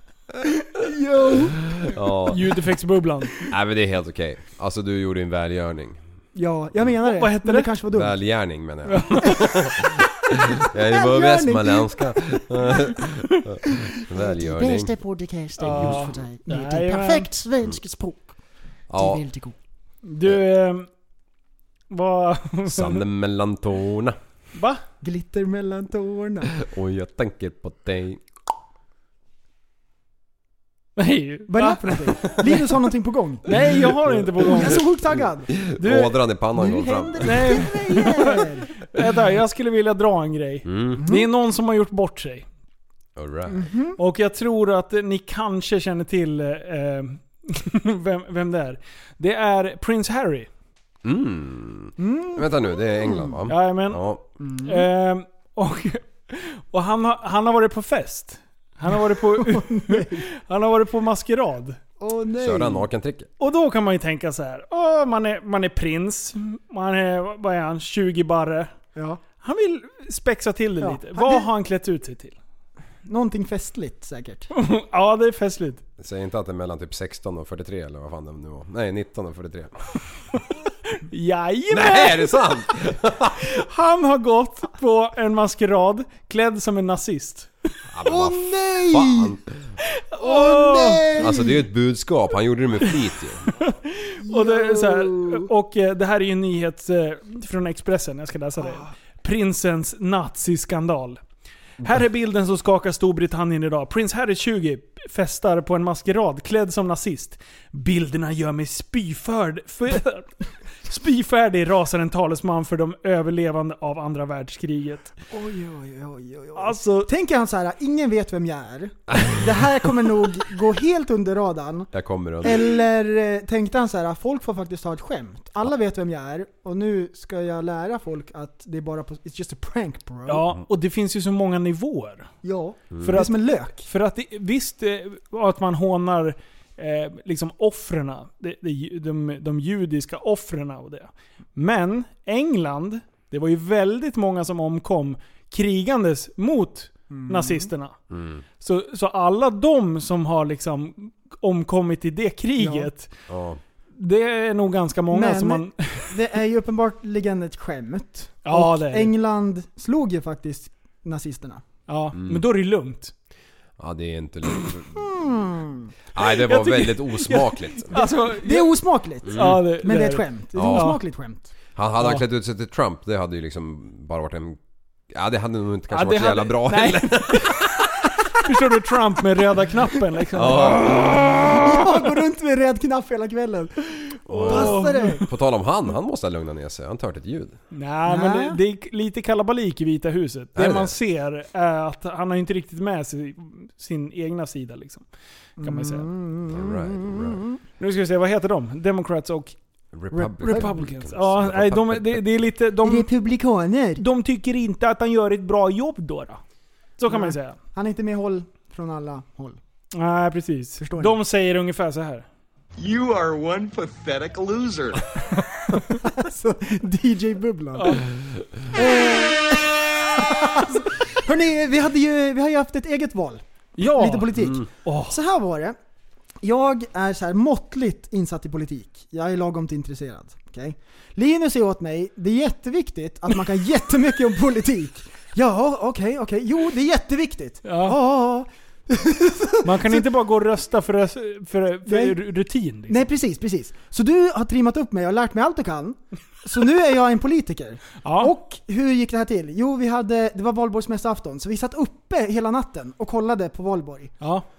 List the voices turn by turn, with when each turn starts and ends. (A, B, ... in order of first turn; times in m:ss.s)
0:00.7-0:01.6 A
0:01.8-0:02.4 B
0:02.3-0:03.5 C
0:03.5-0:06.0 B
0:06.4-0:08.2 A
0:07.0-0:07.7 C
0:07.9-0:14.9 B
0:08.9-0:09.4 C
0:10.9-0:12.1 A
0:14.2-0:18.3 D
0:15.6-0:17.3 C
0:15.7-0:15.9 B
0:18.9-0:19.2 B
0:18.9-0:19.5 D
0:20.0-0:20.9 C
0:21.9-0:23.0 C
0:22.7-0:24.2 B
0:24.6-0:24.8 C
0:25.0-0:26.5 A
0:26.6-0:28.2 B
0:31.0-0:32.6 C
0:31.5-0:33.5 A
0:33.5-0:34.8 C
0:33.6-0:37.6 B
0:34.4-0:35.5 A
0:35.8-0:36.1 C
0:36.6-0:38.7 A
0:37.2-0:38.4 C
0:38.9-0:42.5 C
0:40.6-0:41.0 B
0:41.0-0:41.3 A
0:43.2-0:43.6 B
0:43.5-0:44.0 A
0:44.0-0:50.5 C
0:51.0-0:54.2 B
0:52.0-0:53.4 A
0:53.5-1:01.8 C
0:54.4-0:54.9 A
0:59.0-1:00.2 A
1:02.0-1:02.9 A
1:02.4-1:03.3 B
1:03.4-1:08.7 C
1:09.0-1:09.2 A
1:09.4-1:12.4 C
1:10.8-1:11.5 A
1:13.1-1:14.5 A
1:14.5-1:15.8 C
1:16.0-1:19.7 B
1:21.0-1:22.4 C
1:21.7-1:23.4 B
1:23.4-1:27.5 C
1:27.9-1:29.4 B
1:28.0-1:29.4 A
1:30.1-1:31.2 C
1:30.2-1:31.6 A
1:31.2-1:33.5 B
1:33.6-1:41.2 C
1:34.2-1:35.5 A
1:38.6-1:38.9 A
1:41.8-1:50.3 C
1:50.8-1:55.1 C
1:55.3-2:01.9 A
1:56.6-1:57.1 C
2:01.9-2:02.7 B
2:02.4-2:10.5 A
2:10.3-2:12.3 C
2:12.4-2:13.9 A
2:12.9-2:13.2 B
2:13.0-2:28.0 C
2:27.1-2:27.7 A
2:28.1-2:28.4 B
2:28.6-2:33.1 C
2:32.6-2:32.9 A
2:33.3-2:33.6 B
2:34.0-2:36.1 C
2:35.1-2:41.6 A
2:38.4-2:39.1 C
2:41.9-2:43.1 C
2:42.1-2:42.4 B
2:43.8-2:45.1 B
2:45.0-2:45.9 A
2:46.2-2:47.9 B
2:46.2-2:51.0 C
2:47.9-2:51.5 A
2:49.3-2:49.6 B
2:50.6-2:50.9 B
2:51.8-2:54.6 B
2:55.1-2:57.7 B
2:55.9-2:57.7 C
2:58.4-3:01.7 C
3:00.4-3:01.5 B
3:01.5-3:05.2 A
3:04.3-3:07.6 B
3:04.4-3:05.3 C
3:07.7-3:15.0 C
3:08.1-3:08.6 A
3:10.6-3:10.9 B
3:15.6-3:17.6 A
3:15.6-3:16.1 C
3:16.5-3:17.4 B
3:17.8-3:19.6 C
3:19.9-3:22.3 B
3:20.1-3:20.7 A
3:20.4-3:23.1 C
3:22.8-3:24.0 A
3:24.0-3:26.4 C
3:27.0-3:27.6 C
3:27.1-3:29.6 A
3:29.9-3:32.3 C
3:30.8-3:31.2 A
3:32.8-3:35.0 E
3:35.9-3:38.0 A
3:37.8-3:38.0 C
3:38.7-3:45.8 A
3:43.8-3:45.2 C
3:46.4-4:00.1 A
3:57.6-3:58.0 C
3:59.6-4:03.1 C
4:01.9-4:02.2 A
4:02.9-4:14.1 A
4:08.0-4:08.3 C